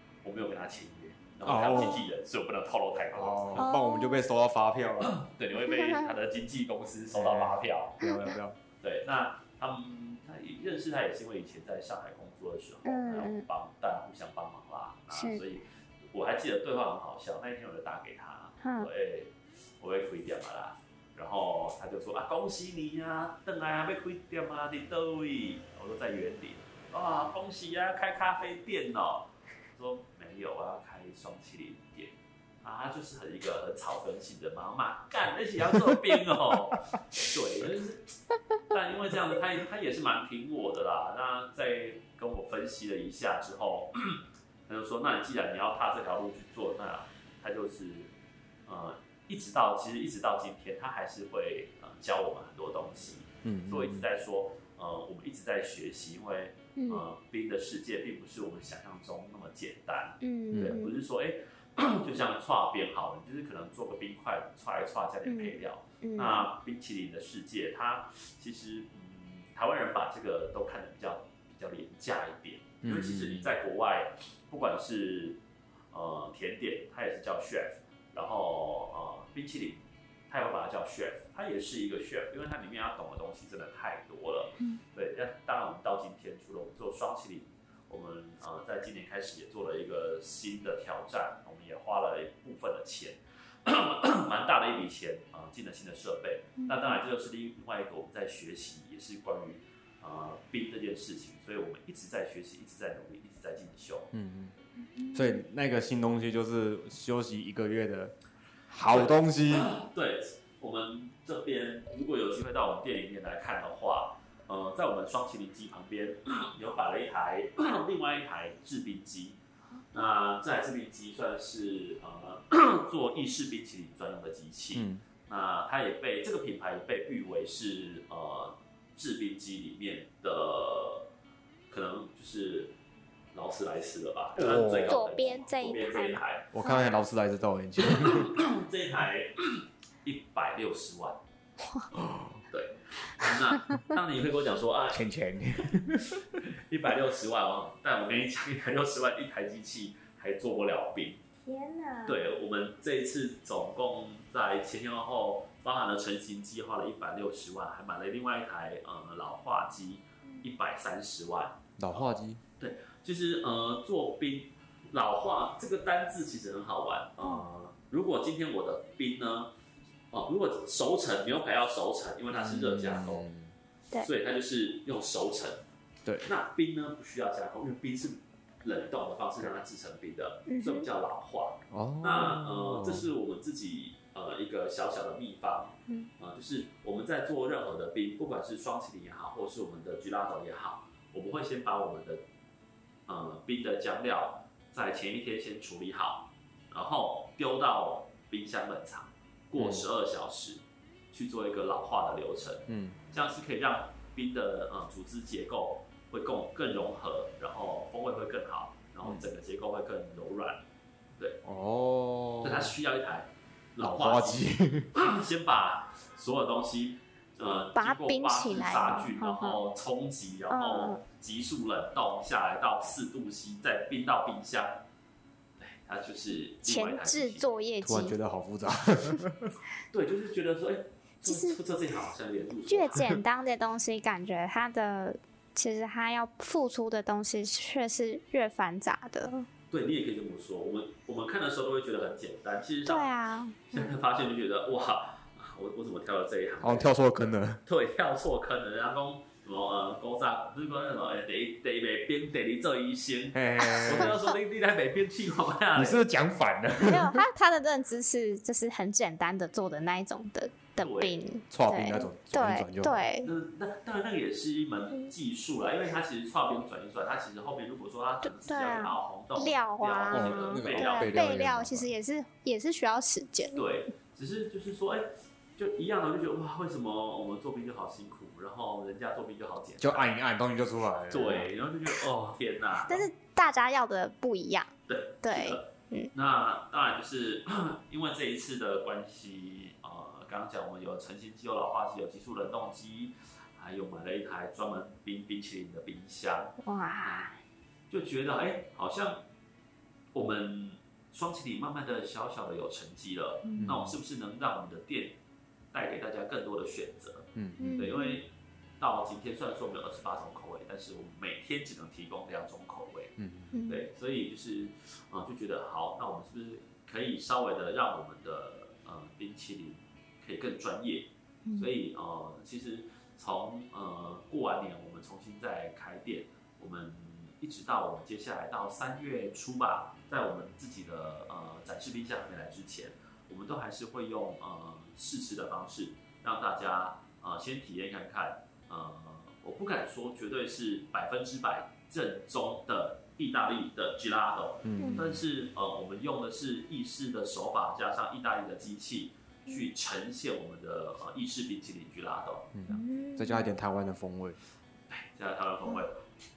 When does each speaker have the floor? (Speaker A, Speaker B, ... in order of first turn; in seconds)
Speaker A: 0.2-3.7, 5.0-8.0, 8.8-38.1, 38.7-48.1, 48.6-75.4, 75.9-104.1, 108.9-119.4, 119.9-131.1, 131.7-132.7, 133.3-136.5, 137.8-141.2, 142.5-145.0, 146.4-151.2, 152.1-162.0, 162.6-169.5, 170.1-173.2, 174.0-175.6, 176.2-192.2, 193.1-210.6, 212.4-224.8, 225.6-227.4, 229.9-233.1, 239.7-243.1, 243.7-246.9, 247.7-256.0, 260.8-261.1, 263.2-271.2, 273.5-275.1, 275.6-280.1, 281.1-283.1, 284.9-297.3, 297.9-299.2, 300.1-305.2, 305.7-313.1, 313.7-352.8, 354.9-356.0
Speaker B: 1.4-2.1, 3.1-5.2, 7.1-8.6, 53.4-54.0, 60.5-60.8, 72.8-73.5, 104.1-104.5, 105.1-108.2, 108.7-109.8, 124.7-125.0, 134.4-134.9, 136.5-138.3, 141.9-142.4, 144.9-146.2, 161.8-162.4, 172.3-173.5, 181.7-183.1, 199.6-199.8, 202.7-203.0, 209.0-209.3, 211.4-212.7, 213.8-214.9, 227.8-229.5, 246.6-247.6, 253.3-254.1, 255.7-257.2, 261.5-263.1, 270.1-271.9, 279.8-281.5, 303.6-303.9, 307.3-307.7, 313.2-313.5, 344.6-345.2, 352.5-354.4
Speaker C: 3.6-4.2, 5.6-6.1, 8.0-8.3, 12.8-13.4, 15.1-15.4, 18.6-18.9, 56.8-57.0, 60.2-60.9, 65.2-66.5, 96.6-97.0, 104.9-105.4, 134.9-136.8, 151.4-152.2, 180.5-180.9, 217.7-219.6, 220.5-221.0, 226.6-228.2, 231.2-231.6, 232.7-239.5, 242.8-243.8, 253.7-254.0, 256.8-263.3, 268.3-273.6, 282.9-284.7, 285.2-286.1, 296.6-297.4, 303.4-303.7, 307.6-308.2, 313.5-313.9, 344.8-345.1, 352.7-353.5